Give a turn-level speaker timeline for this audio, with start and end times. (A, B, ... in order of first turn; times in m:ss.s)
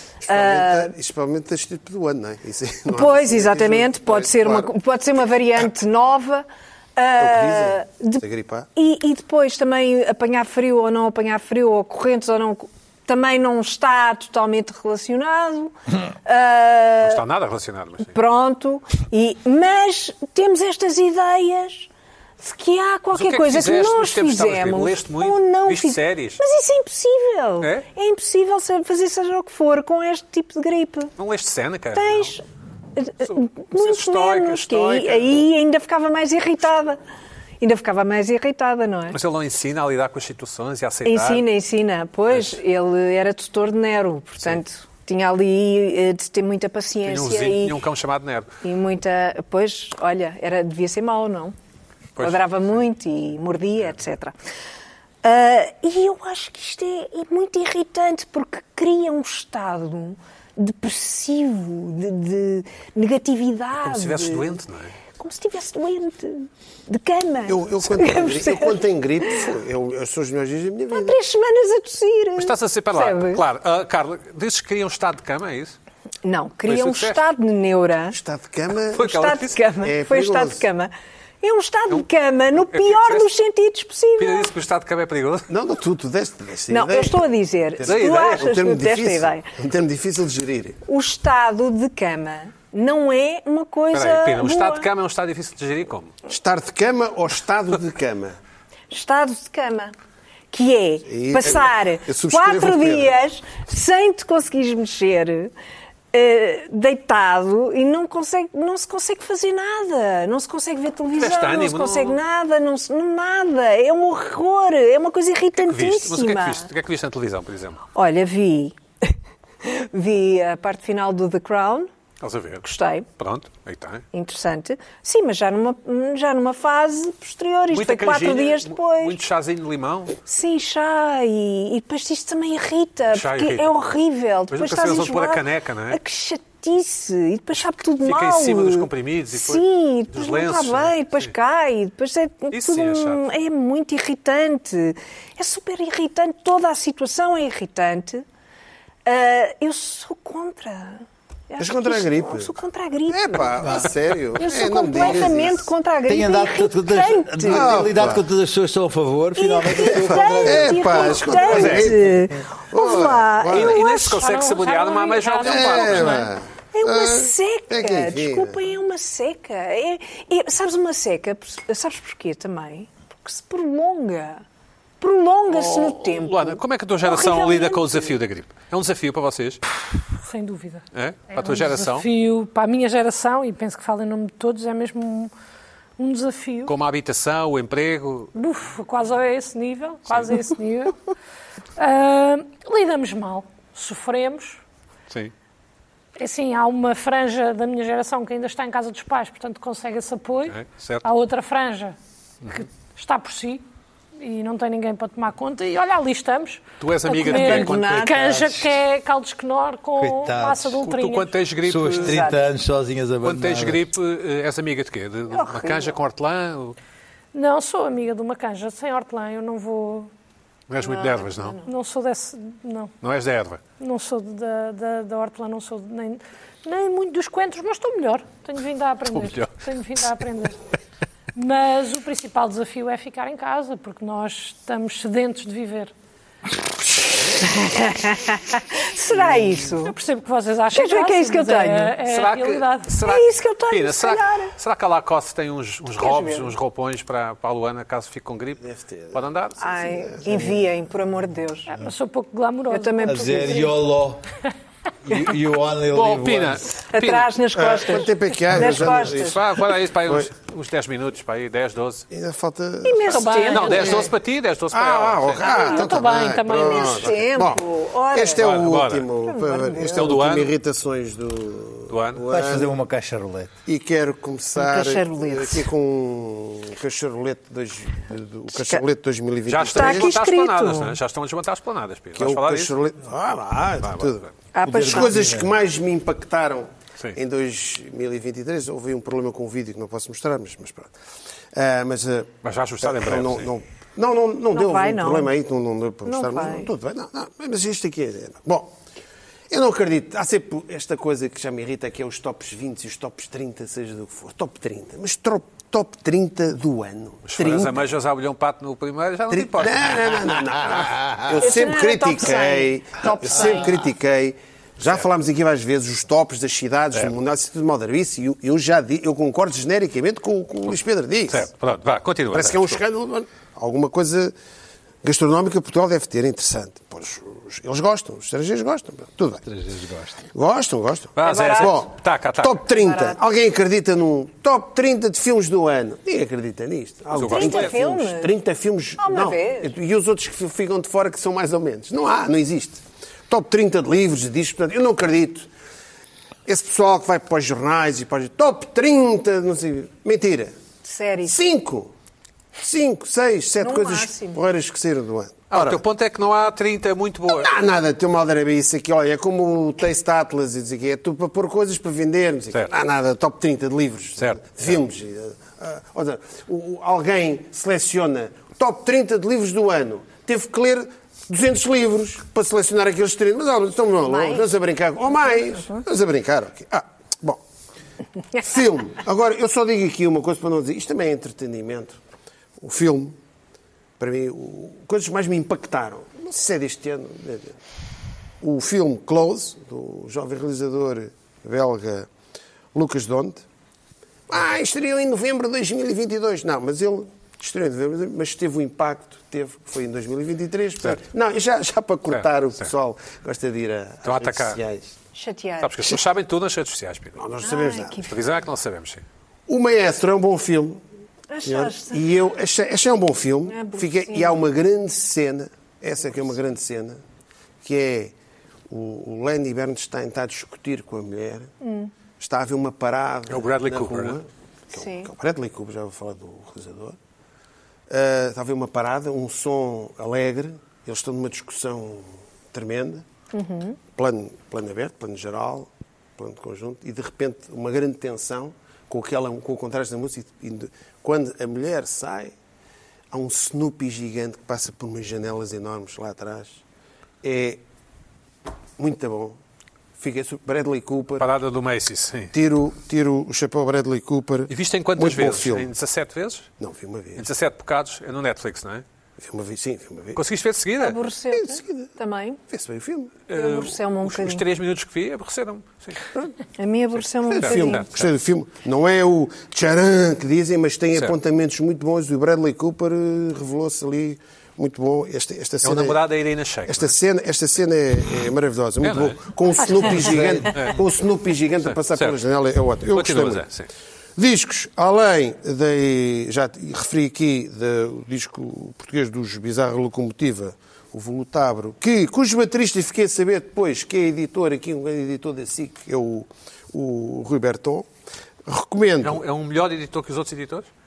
0:00.2-0:04.7 A
0:00.3-0:00.9 B
0:02.9-0:08.2 B
0:07.2-0:08.7 A
0:08.8-0:17.2 B
0:17.0-0:18.1 C
0:18.1-0:31.1 B
0:23.1-0:26.4 C
0:27.6-0:27.8 C
0:31.2-0:32.3 C
0:31.9-0:32.4 B
0:33.0-0:37.0 B
0:33.2-0:35.4 C
0:37.6-0:39.2 B
0:39.1-0:41.4 C
0:41.0-0:47.8 B
0:42.3-0:42.6 C
0:47.0-0:48.5 C
0:48.6-0:51.5 B
0:52.2-0:52.4 C
0:52.2-0:54.3 B
0:55.2-1:04.6 B
1:03.8-1:05.0 C
1:05.1-1:09.4 B
1:07.4-1:11.2 A
1:10.9-1:13.4 B
1:12.4-1:15.8 C
1:16.2-1:18.2 B
1:16.6-1:17.2 C
1:18.1-1:19.1 A
1:18.9-1:19.6 C
1:19.0-1:20.9 B
1:19.8-1:20.6 A
1:21.4-1:24.5 B
1:22.6-1:23.3 C
1:24.2-1:25.5 C
1:25.5-1:30.8 A
1:26.7-1:29.5 B
1:27.8-1:28.5 C
1:30.9-1:34.9 B
1:33.9-1:36.1 C
1:36.3-1:38.4 A
1:38.9-1:39.9 B
1:40.5-1:45.5 B
1:41.1-1:43.2 A
1:46.1-1:56.7 B
1:51.1-1:52.2 C
1:55.6-1:57.8 C
1:57.9-2:01.9 B
2:02.2-2:02.6 C
2:02.6-2:03.1 B
2:03.2-2:04.0 C
2:04.1-2:09.2 B
2:07.7-2:10.1 C
2:10.3-2:28.2 B
2:13.1-2:13.8 C
2:14.5-2:16.0 C
2:17.5-2:21.3 C
2:22.5-2:23.3 C
2:29.0-2:37.8 B
2:31.6-2:32.5 A
2:33.1-2:35.7 A
2:33.6-2:33.9 D
2:36.1-2:41.2 D
2:37.4-2:38.2 A
2:39.4-2:44.2 B
2:40.4-2:43.8 A
2:41.2-2:41.9 C
2:43.5-2:46.3 C
2:43.9-2:46.2 E
2:45.4-2:48.6 A
2:45.9-2:54.4 B
2:55.0-2:58.1 B
2:55.5-2:59.6 C
3:00.2-3:05.3 E
3:00.9-3:02.1 C
3:06.0-3:06.7 E
3:06.6-3:08.3 C
3:08.3-3:11.0 E
3:10.1-3:10.3 C
3:11.8-3:14.6 E
3:16.2-3:22.0 E
3:20.5-3:21.0 C
3:22.5-3:23.6 E
3:24.2-3:31.3 E
3:26.8-3:28.1 C
3:27.1-3:28.7 B
3:30.0-3:30.8 D
3:30.8-3:32.3 C
3:31.6-3:33.8 D
3:32.0-3:32.4 B
3:33.2-3:36.8 C
3:35.3-3:36.0 B
3:37.3-3:40.1 E
3:40.7-3:41.6 C
3:40.8-3:41.6 B
3:41.6-3:42.9 E
3:43.0-3:43.6 C
3:43.8-3:50.6 E
3:49.1-3:49.5 C
3:51.3-3:55.9 E
3:57.2-3:59.9 B
3:59.8-4:02.9 E
4:00.7-4:01.9 B
4:02.0-4:09.6 C
4:03.0-4:04.5 B
4:06.0-4:06.5 B
4:08.6-4:10.6 A
4:09.6-4:11.7 B
4:11.7-4:13.7 E
4:12.7-4:13.7 B
4:13.0-4:14.2 D
4:15.0-4:16.6 D
4:15.9-4:17.3 C
4:16.9-4:19.4 B
4:17.5-4:19.4 A
4:18.6-4:22.1 C
4:22.1-4:23.2 A
4:22.8-4:24.0 B
4:23.1-4:24.1 E
4:23.5-4:25.8 C
4:23.8-4:24.1 A
4:24.7-4:32.7 A
4:25.4-4:27.1 E
4:25.4-4:25.9 B
4:26.5-4:28.4 B
4:28.4-4:29.1 C
4:29.2-4:30.2 B
4:29.9-4:30.5 C
4:31.9-4:32.2 C
4:32.3-4:33.5 D
4:33.6-4:40.1 A
4:34.6-4:35.7 B
4:38.5-4:38.8 B
4:39.5-4:42.7 C
4:39.7-4:41.0 B
4:42.2-4:50.9 A
4:43.8-4:44.3 C
4:44.5-4:45.2 B
4:44.6-4:45.5 D
4:51.5-4:58.7 A
4:52.4-4:53.5 C
4:54.5-4:55.3 B
4:56.0-4:56.7 B
4:59.5-5:07.8 A
5:07.3-5:10.2 C
5:09.3-5:21.5 A
5:11.4-5:13.9 B
5:21.3-5:22.8 C
5:22.3-5:24.3 A
5:25.0-5:29.4 A
5:29.4-5:30.2 C
5:30.3-5:45.5 A
5:31.2-5:32.7 C
5:31.2-5:31.8 B
5:32.7-5:33.2 B
5:37.1-5:37.8 C
5:37.2-5:38.3 B
5:39.0-5:39.7 B
5:46.4-5:50.5 A
5:50.8-5:51.3 B
5:51.2-5:51.9 A
5:52.6-5:55.8 A
5:53.6-5:54.4 B
5:55.5-5:57.5 C
5:57.3-6:17.4 A
6:04.2-6:04.8 C
6:14.0-6:14.5 B
6:18.4-6:22.0 A
6:22.6-6:23.2 A
6:24.0-6:27.6 A
6:28.4-6:32.1 A
6:32.7-6:33.4 A
6:34.3-6:45.0 A
6:42.1-6:42.7 C
6:44.0-6:44.6 C
6:45.1-6:46.0 B
6:45.6-6:47.2 C
6:47.1-6:48.0 A
6:47.4-6:48.1 B
6:48.0-6:49.0 C
6:49.5-6:50.8 A
6:51.3-6:52.0 B
6:51.4-6:57.0 A
6:53.5-6:54.4 B
6:57.6-6:58.1 A
6:58.7-7:01.5 A
7:01.6-7:01.9 B
7:02.2-7:07.0 A
7:03.3-7:04.2 C
7:04.7-7:05.1 B
7:07.9-7:13.0 A
7:13.3-7:13.8 B
7:13.9-7:22.3 A
7:23.1-7:26.6 A
7:27.2-7:27.6 A
7:28.8-7:29.4 A
7:30.0-7:31.3 A
7:31.2-7:32.3 C
7:32.3-7:35.7 A
7:34.5-7:36.5 C
7:36.6-7:37.3 A
7:37.2-7:38.8 C
7:39.2-7:40.2 A
7:40.1-7:41.0 C
7:40.8-7:42.4 B
7:41.3-7:41.9 A
7:42.5-7:43.2 A
7:43.3-7:46.0 C
7:43.3-7:44.4 B
7:46.1-7:46.4 A
7:46.6-7:47.9 B
7:47.3-7:56.0 A
7:47.3-7:48.1 C
7:55.6-7:56.9 C
7:56.6-8:03.4 A
7:58.8-7:59.2 C
7:59.8-8:00.8 C
8:01.6-8:02.2 C
8:02.9-8:03.7 C
8:04.2-8:17.9 A
8:18.4-8:19.2 A
8:19.0-8:20.7 C